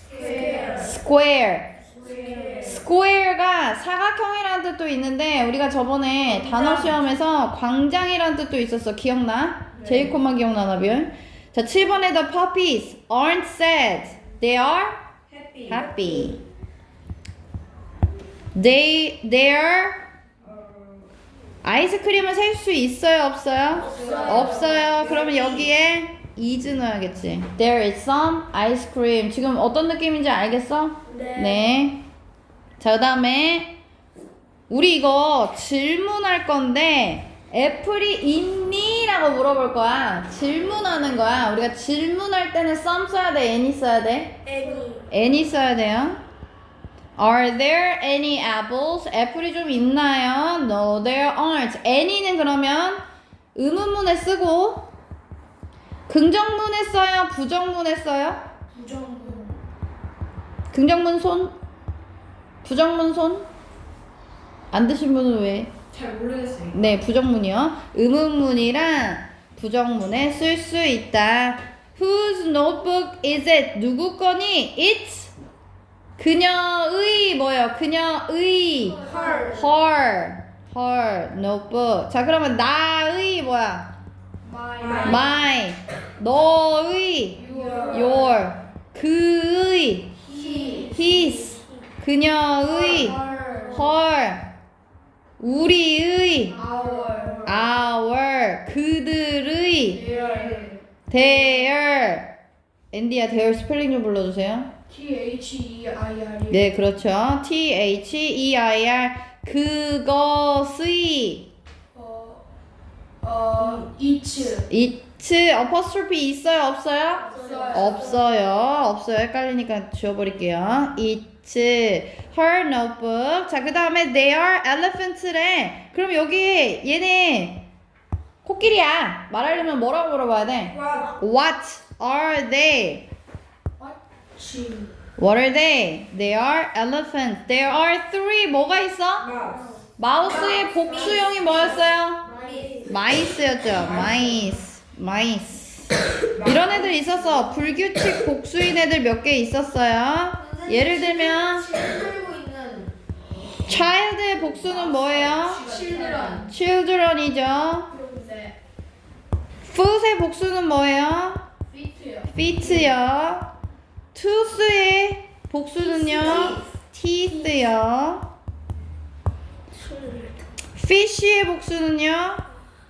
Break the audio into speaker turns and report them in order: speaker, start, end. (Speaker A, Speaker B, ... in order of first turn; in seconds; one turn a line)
Speaker A: 0.1-1.0
Speaker B: 0.1-0.9
Speaker C: 0.1-0.9
Speaker D: 0.6-1.7
Speaker A: 1.9-2.8
Speaker C: 2.0-2.8
Speaker D: 2.6-15.0
Speaker C: 6.3-7.0
Speaker C: 9.7-10.2
Speaker C: 15.3-16.4
Speaker D: 15.7-16.4
Speaker D: 18.5-20.0
Speaker C: 20.4-21.1
Speaker D: 21.6-32.0
Speaker A: 23.8-25.1
Speaker C: 23.8-25.7
Speaker A: 31.1-31.7
Speaker D: 32.8-33.7
Speaker D: 34.7-44.4
Speaker A: 44.4-45.1
Speaker D: 45.1-46.2
Speaker D: 47.2-53.0
Speaker D: 53.5-54.9
Speaker D: 56.1-58.4
Speaker B: 58.7-59.5
Speaker D: 60.7-61.5
Speaker D: 62.6-63.5
Speaker D: 64.7-65.7
Speaker C: 65.9-66.8
Speaker D: 66.7-75.3
Speaker D: 76.2-83.9
Speaker B: 78.8-79.7
Speaker C: 79.0-79.7
Speaker B: 84.4-85.3
Speaker C: 84.8-85.2
Speaker D: 85.0-87.4
Speaker B: 87.3-88.4
Speaker C: 87.5-88.1
Speaker D: 87.9-90.2
Speaker B: 90.2-91.0
Speaker C: 90.3-90.9
Speaker A: 90.6-91.9
Speaker D: 90.9-93.2
Speaker B: 92.6-93.9
Speaker A: 93.2-93.9
Speaker D: 93.7-94.5
Speaker D: 95.4-96.6
Speaker B: 96.5-97.6
Speaker C: 96.6-97.6
Speaker D: 97.4-100.0
Speaker B: 99.9-100.7
Speaker C: 100.1-100.8
Speaker D: 101.1-102.3
Speaker D: 102.9-104.7
Speaker B: 104.9-106.7
Speaker D: 106.5-111.5
Speaker B: 111.9-112.4
Speaker B: 113.2-114.6
Speaker D: 114.4-127.6
Speaker A: 117.2-118.2
Speaker B: 117.3-118.2
Speaker D: 128.4-133.1
Speaker C: 130.7-131.1
Speaker B: 133.8-134.9
Speaker D: 135.2-139.3
Speaker C: 139.2-139.7
Speaker A: 139.5-139.9
Speaker D: 140.0-142.2
Speaker C: 140.2-141.7
Speaker A: 140.5-142.9
Speaker C: 142.3-142.9
Speaker D: 142.8-151.7
Speaker C: 143.7-144.6
Speaker C: 146.3-147.1
Speaker C: 150.4-152.9
Speaker D: 153.6-155.6
Speaker C: 154.3-156.5
Speaker B: 155.4-156.5
Speaker D: 156.5-157.9
Speaker A: 157.9-158.3
Speaker B: 158.1-158.5
Speaker D: 159.6-161.4
Speaker B: 161.7-162.9
Speaker D: 162.3-163.5
Speaker D: 164.1-168.3
Speaker C: 165.8-166.6
Speaker A: 166.2-166.6
Speaker A: 167.2-167.7
Speaker A: 169.7-170.4
Speaker D: 170.8-172.4